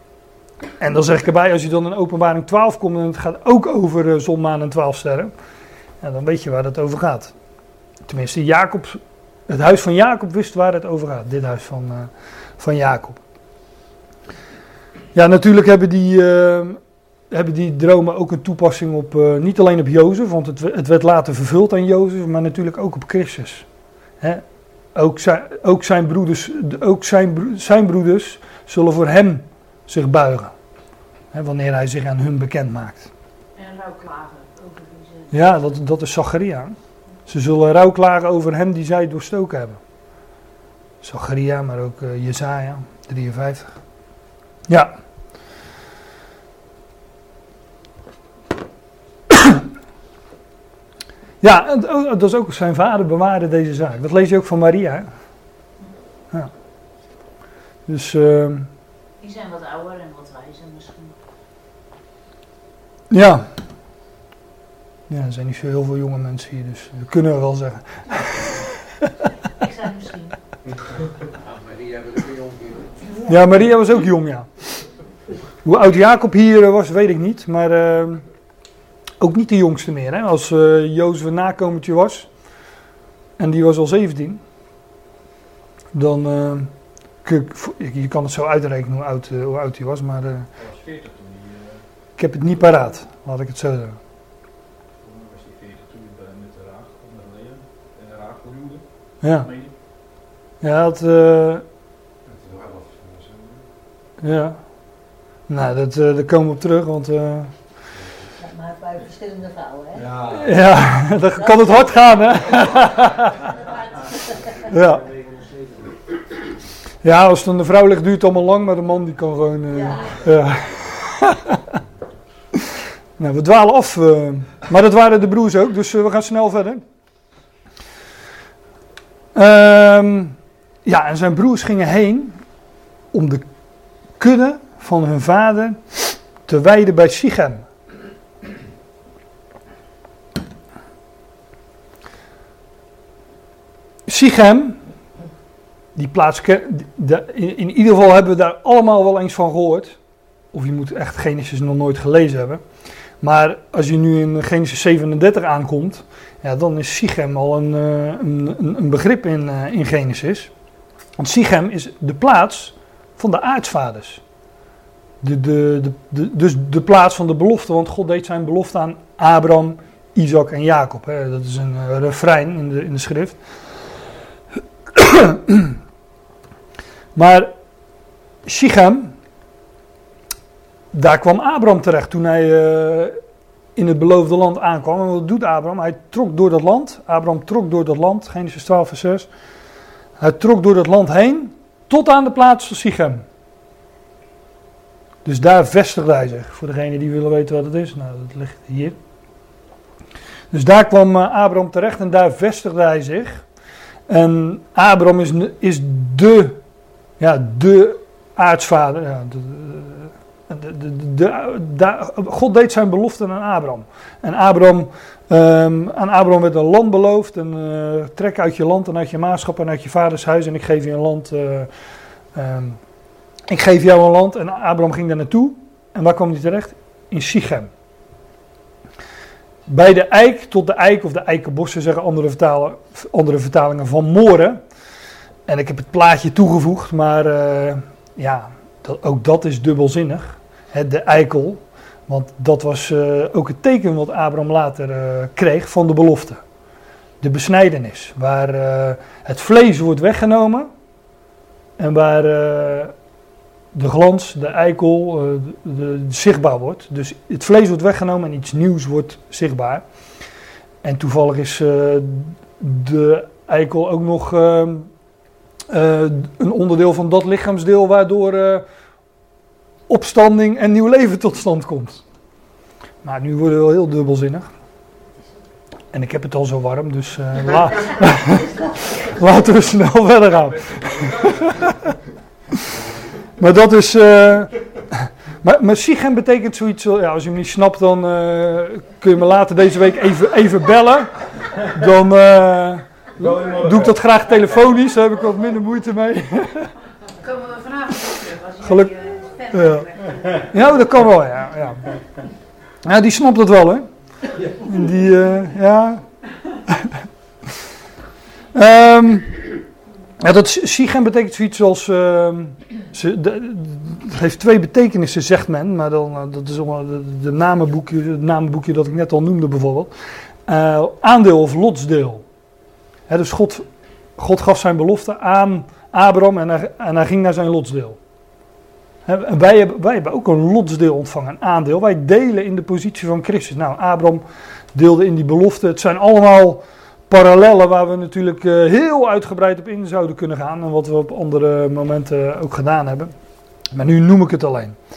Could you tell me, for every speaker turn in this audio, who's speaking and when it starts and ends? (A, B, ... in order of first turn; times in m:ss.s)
0:00.8-0:05.3 A
0:06.0-0:07.3 A
0:08.1-0:13.2 A
0:15.1-0:16.8 A
0:17.3-0:23.6 A
0:24.2-0:30.5 A
0:31.3-0:33.1 A
0:33.6-0:35.5 B
0:35.3-0:36.8 A
0:37.3-0:39.8 A
0:41.0-0:43.8 A
0:44.7-0:45.0 A
0:49.3-0:49.6 A
0:51.4-0:55.1 A
0:57.9-0:58.7 A
0:59.2-1:01.2 B
1:03.1-1:03.5 A
1:05.1-1:09.1 A
1:09.6-1:10.4 B
1:11.4-1:13.0 C
1:13.2-1:14.9 A
1:15.6-1:18.2 A
1:19.2-1:22.3 A
1:23.4-1:24.4 A
1:25.9-1:26.7 A
1:27.2-1:30.5 A
1:30.6-1:31.8 C
1:32.2-1:34.0 A
1:35.0-1:39.7 C
1:39.2-1:39.5 A
1:40.6-1:41.6 A
1:42.3-1:43.6 C
1:44.2-1:44.6 A
1:45.5-1:47.5 A
1:48.4-1:50.1 D
1:50.0-1:50.5 C
1:50.3-1:53.5 A
1:51.4-1:52.0 D
1:54.7-1:55.0 A
1:55.0-1:56.0 C
1:57.0-2:01.8 A
1:59.7-2:00.2 D
2:03.2-2:06.8 A
2:09.4-2:12.4 A
2:13.1-2:13.4 A
2:14.2-2:17.6 A
2:24.1-2:24.8 A
2:26.0-2:30.0 A
2:30.5-2:32.6 A
2:33.2-2:40.5 A
2:41.2-2:44.2 A
2:45.2-2:53.4 A
2:54.9-2:55.8 A
2:57.2-2:57.5 A
2:58.4-2:59.2 A
3:00.9-3:03.2 A
3:03.8-3:09.3 A
3:10.2-3:13.2 A
3:15.2-3:19.0 A
3:20.5-3:23.4 A
3:24.1-3:26.6 A
3:27.2-3:41.7 A
3:42.4-3:42.8 A
3:43.5-3:47.7 A
3:49.7-3:54.6 A
3:55.5-4:06.4 A
4:07.2-4:10.7 A
4:11.8-4:12.9 A
4:13.7-4:19.8 A
4:20.8-4:24.9 A
4:25.7-4:28.7 A
4:29.9-4:32.0 A
4:33.0-4:34.5 A
4:35.9-4:41.9 A
4:40.7-4:41.5 C
4:43.4-4:56.7 A
4:53.2-4:53.9 C
4:57.2-5:00.2 B
4:58.6-4:58.9 A
4:59.5-5:01.9 A
5:02.8-5:06.0 A
5:08.5-5:09.5 A
5:10.2-5:19.9 A
5:20.5-5:22.2 A
5:23.1-5:23.7 A
5:24.2-5:28.0 A
5:29.1-5:43.1 A
5:43.7-5:44.8 A